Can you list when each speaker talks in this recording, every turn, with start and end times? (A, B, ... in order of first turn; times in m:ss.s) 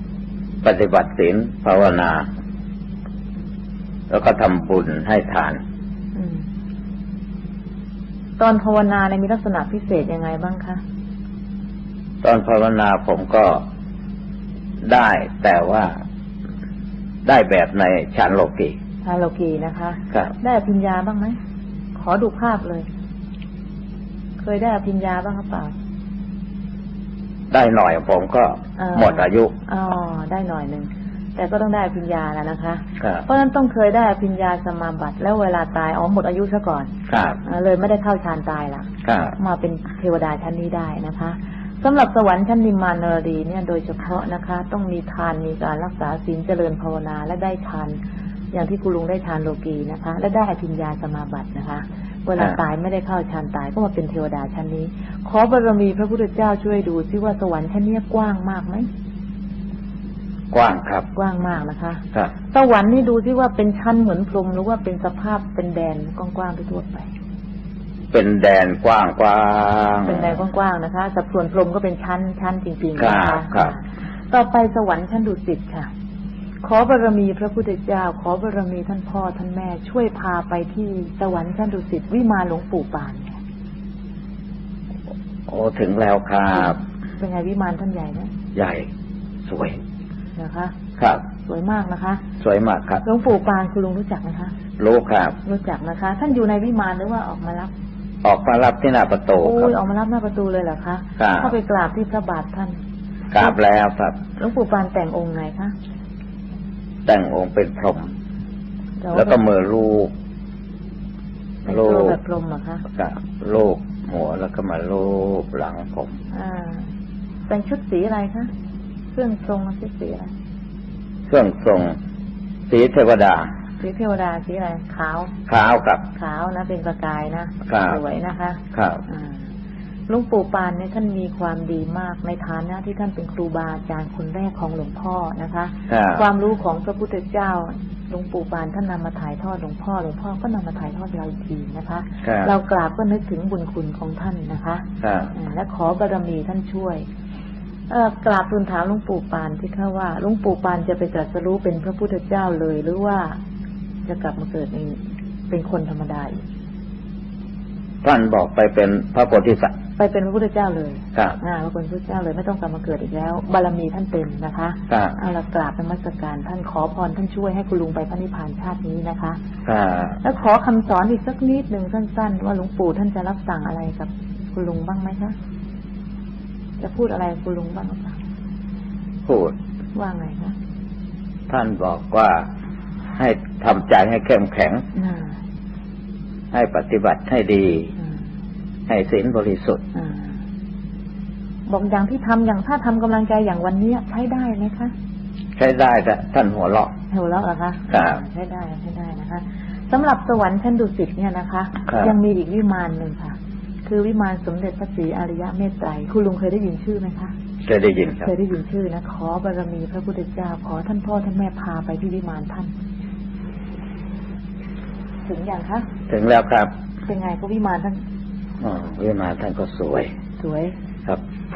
0:00.6-0:02.3 A
0:04.1-0:05.6 A
0:06.1-0:06.4 B
0:08.4-0:10.8 B
0:12.2-0:13.6 A
0:14.8-0:16.0 A
0:17.2-0:18.8 A
0:19.0-0:21.4 B
0:22.0-0:22.9 B
0:24.4-0:25.7 B
0:27.5-0:29.5 A
0:28.8-0:36.9 B
0:33.0-0:33.2 A
0:37.1-0:37.4 A
0:37.4-0:48.0 B
0:39.0-0:39.4 A
0:48.5-0:58.9 B
1:00.5-1:01.1 A
1:01.1-1:07.1 B
1:08.1-1:10.4 A
1:10.0-1:15.9 B
1:13.0-1:13.7 A
1:16.6-1:23.4 B
1:25.5-1:26.8 A
1:26.6-1:28.3 B
1:28.5-1:28.9 A
1:29.5-1:29.8 A
1:30.4-1:30.7 B
1:31.0-1:31.2 A
1:31.4-1:32.2 B
1:32.4-1:33.0 A
1:33.0-1:34.5 B
1:34.8-1:35.4 A
1:35.4-1:37.7 B
1:38.2-1:39.8 A
1:39.4-1:42.8 B
1:41.2-1:41.5 A
1:43.3-1:44.2 A
1:44.4-1:45.7 B
1:47.0-1:48.1 A
1:49.0-1:49.4 B
1:49.1-1:50.1 A
1:51.6-1:52.8 B
1:51.7-1:52.2 A
1:52.9-1:56.1 A
1:56.3-1:56.9 B
1:57.5-1:58.5 B
1:59.1-2:00.3 B
2:01.3-2:02.0 A
2:02.7-2:03.5 A
2:03.8-2:05.3 B
2:05.5-2:06.0 A
2:06.1-2:09.4 B
2:07.6-2:08.0 A
2:08.7-2:09.0 A
2:10.1-2:27.0 B
2:15.9-2:16.2 A
2:22.2-2:22.5 A
2:25.0-2:25.3 A
2:27.9-2:33.4 B
2:34.1-2:35.0 B
2:35.5-2:36.4 B
2:38.0-2:39.8 A
2:40.0-2:49.4 B
2:44.9-2:45.2 A
2:49.6-2:50.2 A
2:50.2-2:55.3 B
2:56.8-2:58.2 B
2:59.2-2:59.5 A
2:59.9-3:00.6 B
3:01.5-3:02.5 A
3:03.2-3:04.8 A
3:04.9-3:05.3 B
3:06.5-3:07.9 A
3:08.9-3:09.8 A
3:09.9-3:10.3 B
3:11.7-3:14.9 B
3:15.6-3:16.9 A
3:17.1-3:27.3 B
3:17.9-3:18.2 A
3:21.9-3:22.1 A
3:27.6-3:28.3 A
3:28.2-3:32.7 B
3:35.3-3:35.9 B
3:36.1-3:36.7 A
3:37.1-3:38.0 B
3:38.6-3:40.1 A
3:40.4-3:40.7 B